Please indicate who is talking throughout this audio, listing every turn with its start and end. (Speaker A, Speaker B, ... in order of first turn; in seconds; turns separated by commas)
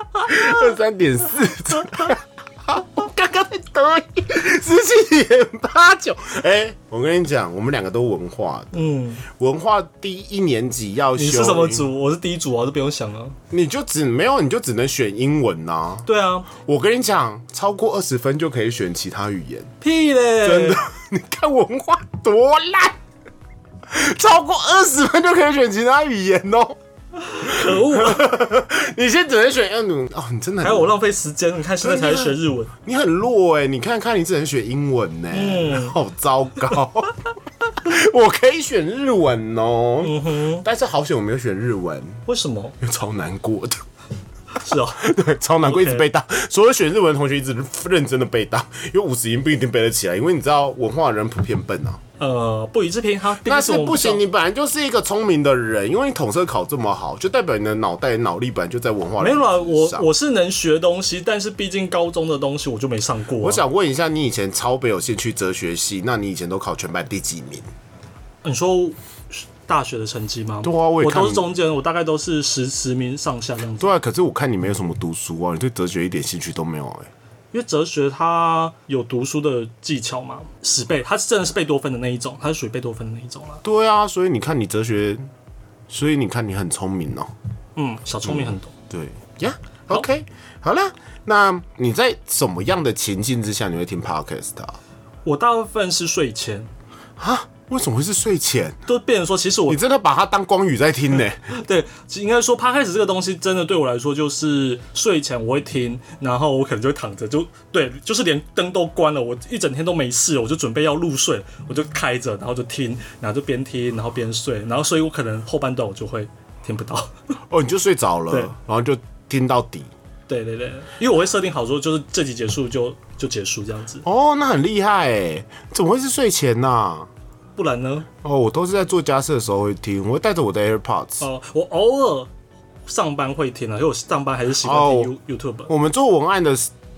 Speaker A: 0.2-11.9, Speaker B: 8.7-9.3, Speaker B: 11.2-13.4, Speaker A: 13.5-19.7, Speaker B: 16.1-16.5, Speaker B: 19.8-20.8, Speaker A: 20.4-23.0, Speaker A: 23.9-26.8, Speaker B: 27.2-28.3, Speaker A: 27.4-30.9, Speaker B: 30.6-32.7, Speaker A: 31.8-37.2, Speaker B: 35.3-36.0, Speaker A: 37.8-42.2, Speaker B: 40.0-40.6, Speaker B: 42.3-42.8, Speaker A: 42.8-43.8, Speaker B: 44.6-45.1, Speaker A: 45.0-52.0, Speaker B: 45.6-46.0, Speaker B: 52.2-54.2, Speaker A: 53.4-60.1, Speaker B: 59.2-63.6, Speaker A: 63.4-67.7, Speaker B: 68.4-73.9, Speaker A: 70.6-71.5, Speaker A: 73.8-77.1, Speaker B: 77.5-83.6, Speaker A: 83.6-85.3, Speaker A: 85.9-87.3, Speaker B: 87.8-88.7, Speaker A: 88.2-94.8, Speaker B: 95.2-96.7, Speaker A: 97.2-98.8, Speaker B: 98.9-99.8, Speaker A: 99.7-101.4, Speaker B: 101.5-117.1, Speaker A: 117.5-119.9, Speaker B: 120.3-124.0, Speaker A: 124.0-127.1, Speaker B: 127.6-128.1, Speaker A: 128.2-131.3, Speaker B: 131.2-132.3, Speaker B: 132.9-135.7, Speaker A: 134.6-135.1, Speaker A: 135.7-136.7